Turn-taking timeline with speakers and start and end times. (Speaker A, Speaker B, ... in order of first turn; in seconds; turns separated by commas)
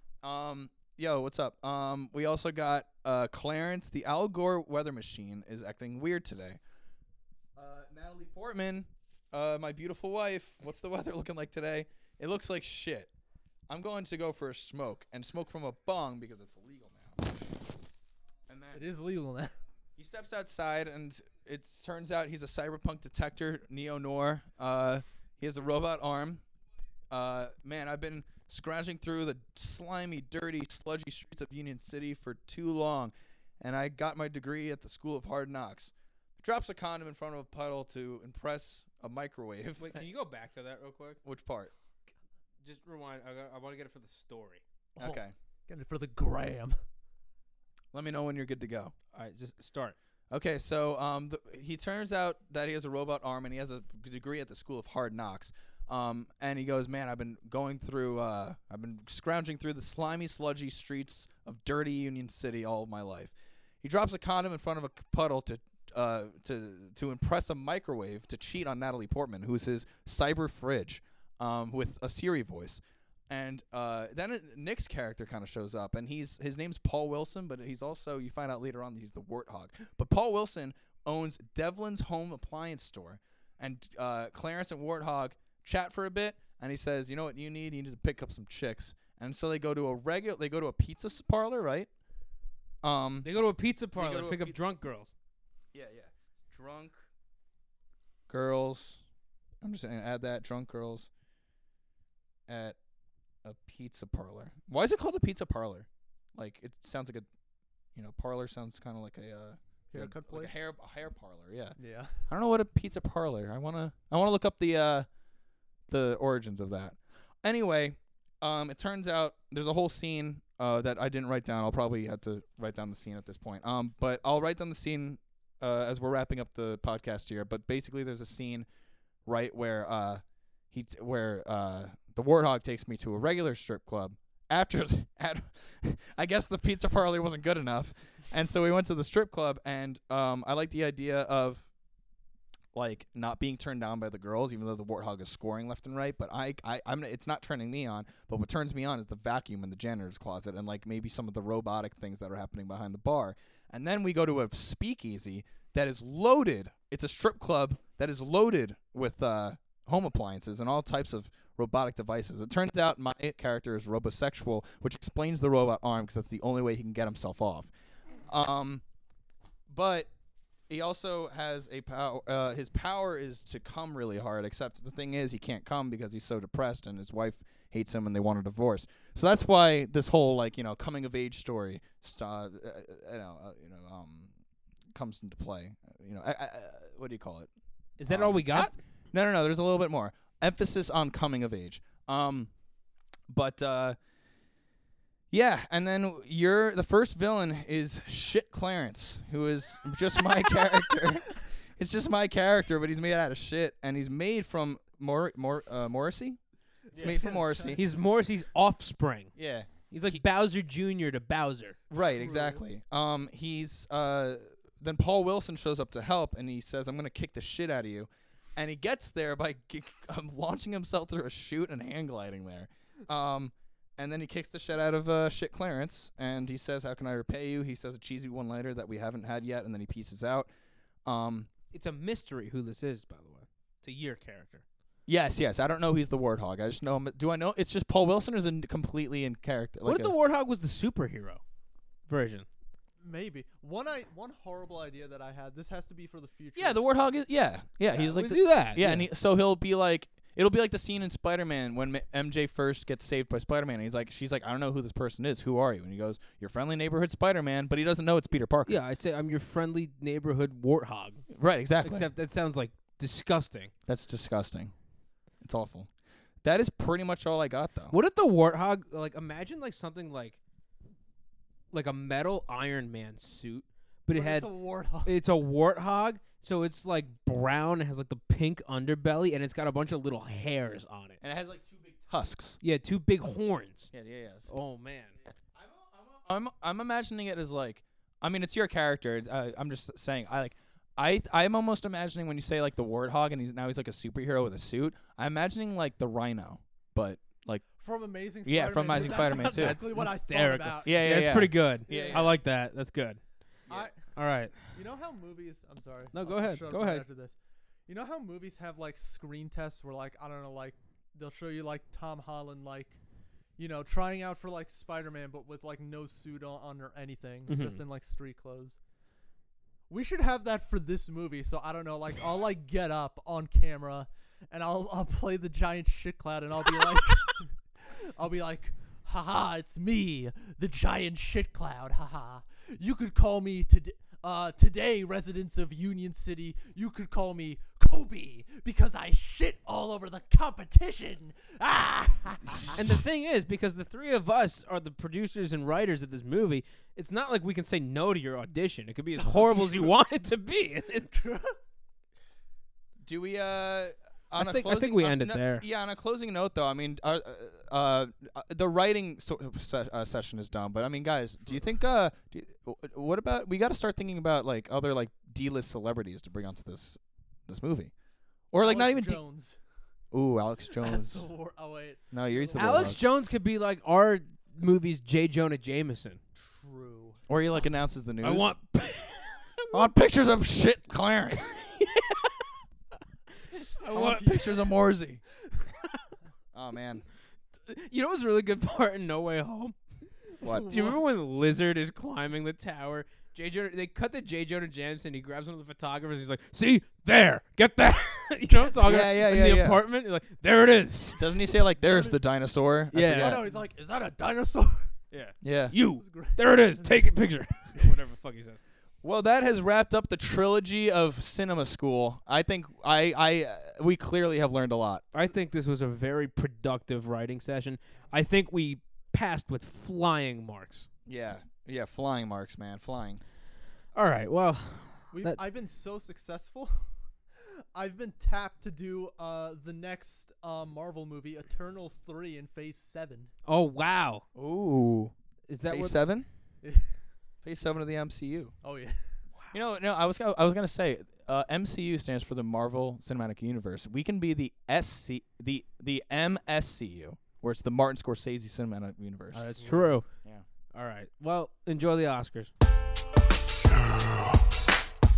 Speaker A: 0.2-6.6, Speaker A: 7.5-13.1, Speaker A: 13.7-17.3, Speaker A: 18.5-18.8, Speaker B: 18.7-19.5, Speaker A: 20.0-26.4, Speaker A: 27.1-40.0, Speaker C: 39.8-41.2, Speaker A: 41.2-41.7, Speaker C: 42.6-44.6, Speaker A: 45.0-45.3, Speaker B: 45.0-46.8, Speaker A: 47.9-48.9, Speaker C: 49.1-50.0, Speaker A: 50.3-91.9, Speaker A: 92.8-93.4, Speaker C: 93.2-95.1, Speaker A: 93.9-94.6, Speaker A: 95.7-97.1, Speaker A: 98.3-99.0, Speaker A: 99.6-101.1, Speaker A: 102.5-102.8, Speaker A: 103.4-107.3, Speaker A: 107.9-111.8, Speaker B: 109.9-110.7, Speaker B: 111.8-112.2, Speaker A: 112.3-115.1, Speaker A: 115.9-128.7, Speaker A: 129.2-141.7, Speaker A: 142.7-167.7, Speaker A: 168.3-168.8, Speaker A: 169.7-170.1, Speaker A: 170.7-184.3, Speaker A: 184.9-187.5, Speaker C: 188.0-188.7, Speaker A: 188.1-192.5, Speaker A: 193.3-193.9, Speaker A: 195.3-206.4, Speaker B: 206.9-207.8, Speaker A: 206.9-207.8, Speaker C: 207.7-209.3, Speaker A: 209.4-210.2, Speaker C: 209.9-211.8, Speaker A: 211.9-230.5, Speaker B: 212.1-212.6, Speaker A: 231.1-231.5, Speaker C: 231.7-234.6, Speaker A: 235.1-240.1, Speaker C: 239.8-241.4, Speaker C: 242.1-242.4, Speaker B: 243.0-246.8, Speaker A: 246.5-258.8, Speaker C: 248.1-249.1, Speaker C: 258.6-261.2, Speaker A: 261.3-262.1, Speaker C: 261.8-263.7, Speaker A: 263.9-264.7, Speaker A: 265.4-265.9, Speaker A: 266.4-267.9, Speaker C: 267.9-270.4, Speaker C: 271.7-274.5, Speaker B: 274.1-275.1, Speaker C: 275.0-281.2, Speaker A: 281.2-282.6, Speaker C: 282.6-283.9, Speaker A: 283.9-284.5, Speaker C: 284.5-285.1, Speaker A: 285.5-297.6, Speaker B: 297.8-301.1, Speaker A: 298.4-299.8, Speaker C: 299.0-303.2, Speaker A: 300.8-302.3, Speaker B: 301.9-302.3, Speaker B: 303.7-304.0, Speaker C: 304.1-304.7, Speaker B: 304.7-313.0, Speaker C: 306.1-307.0, Speaker B: 313.6-318.8, Speaker C: 317.5-317.8, Speaker B: 319.9-342.8, Speaker C: 342.7-351.1, Speaker B: 351.1-351.6, Speaker A: 353.0-367.9, Speaker C: 354.4-355.6, Speaker A: 368.5-369.2, Speaker B: 368.6-369.6, Speaker A: 370.1-371.2, Speaker B: 370.7-372.9, Speaker A: 372.1-373.0, Speaker C: 372.5-376.2, Speaker B: 376.4-377.2, Speaker A: 377.3-378.5, Speaker C: 378.2-379.9, Speaker A: 379.7-381.5, Speaker C: 381.5-382.5, Speaker C: 383.5-384.4, Speaker A: 383.9-385.2, Speaker A: 386.5-387.0, Speaker C: 387.7-389.8, Speaker A: 390.4-390.9, Speaker B: 390.5-390.9, Speaker C: 390.5-401.5, Speaker B: 398.5-398.9, Speaker A: 398.8-399.8, Speaker A: 401.2-403.5, Speaker B: 401.8-402.2, Speaker C: 402.9-403.4, Speaker B: 403.2-404.9, Speaker C: 405.1-408.6, Speaker A: 405.4-405.8, Speaker B: 406.0-407.1, Speaker A: 409.0-415.0, Speaker C: 415.1-420.9, Speaker A: 421.1-423.2, Speaker C: 423.9-425.4, Speaker B: 425.1-426.8, Speaker B: 427.4-433.3, Speaker C: 433.5-434.2, Speaker A: 434.3-435.1, Speaker C: 435.5-436.0, Speaker A: 435.7-436.3, Speaker B: 436.6-437.0, Speaker A: 437.4-438.5, Speaker B: 438.6-439.0, Speaker A: 439.5-449.6, Speaker C: 449.3-450.1, Speaker C: 450.7-452.5